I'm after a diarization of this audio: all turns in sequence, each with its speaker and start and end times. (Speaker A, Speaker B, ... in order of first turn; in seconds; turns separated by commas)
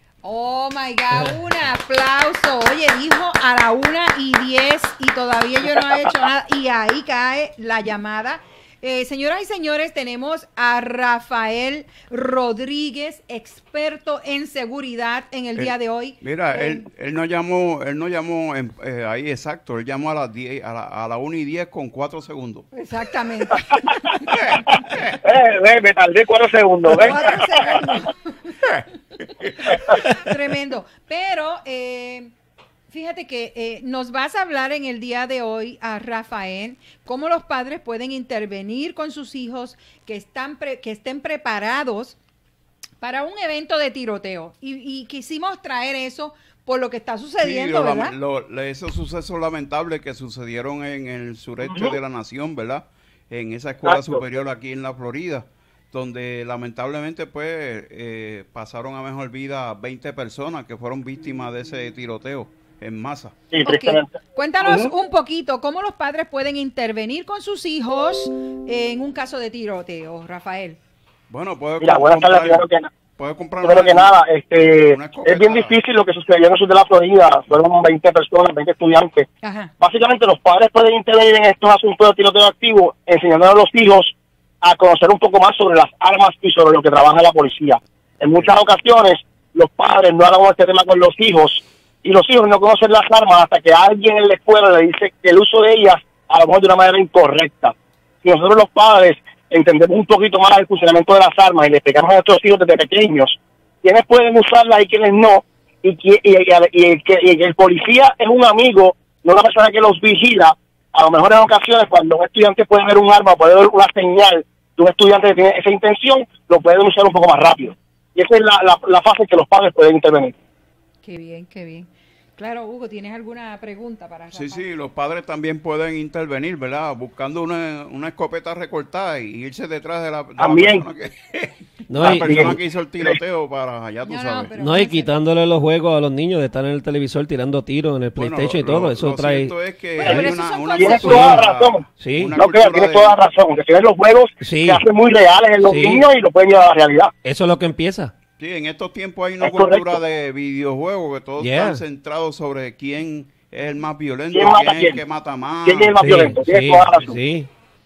Speaker A: 0.2-16.8, Speaker B: 15.6-22.7, Speaker A: 22.7-24.3, Speaker B: 24.3-25.0, Speaker C: 24.8-27.8, Speaker A: 27.0-28.3, Speaker A: 29.9-32.3, Speaker A: 32.9-42.2, Speaker A: 43.0-48.1, Speaker B: 47.4-63.3, Speaker C: 51.6-51.9, Speaker C: 53.8-54.2, Speaker C: 63.5-64.9, Speaker A: 63.6-70.8, Speaker B: 71.3-74.2, Speaker C: 71.8-72.9, Speaker C: 73.6-79.3, Speaker B: 74.8-75.7, Speaker A: 79.4-79.7, Speaker C: 79.8-120.3, Speaker A: 121.0-124.6, Speaker B: 124.3-134.5, Speaker C: 130.4-130.8, Speaker D: 131.9-132.5, Speaker C: 132.0-133.2, Speaker A: 134.1-135.1, Speaker D: 134.6-139.5, Speaker B: 138.2-143.2, Speaker A: 140.0-141.4, Speaker C: 140.8-141.8, Speaker D: 142.0-142.4, Speaker C: 142.3-147.1, Speaker D: 144.4-144.8, Speaker D: 145.6-146.0, Speaker D: 147.2-148.1, Speaker B: 148.4-156.0, Speaker C: 149.4-150.0, Speaker D: 151.4-151.8, Speaker C: 154.3-155.0, Speaker C: 155.6-157.2, Speaker D: 156.0-157.5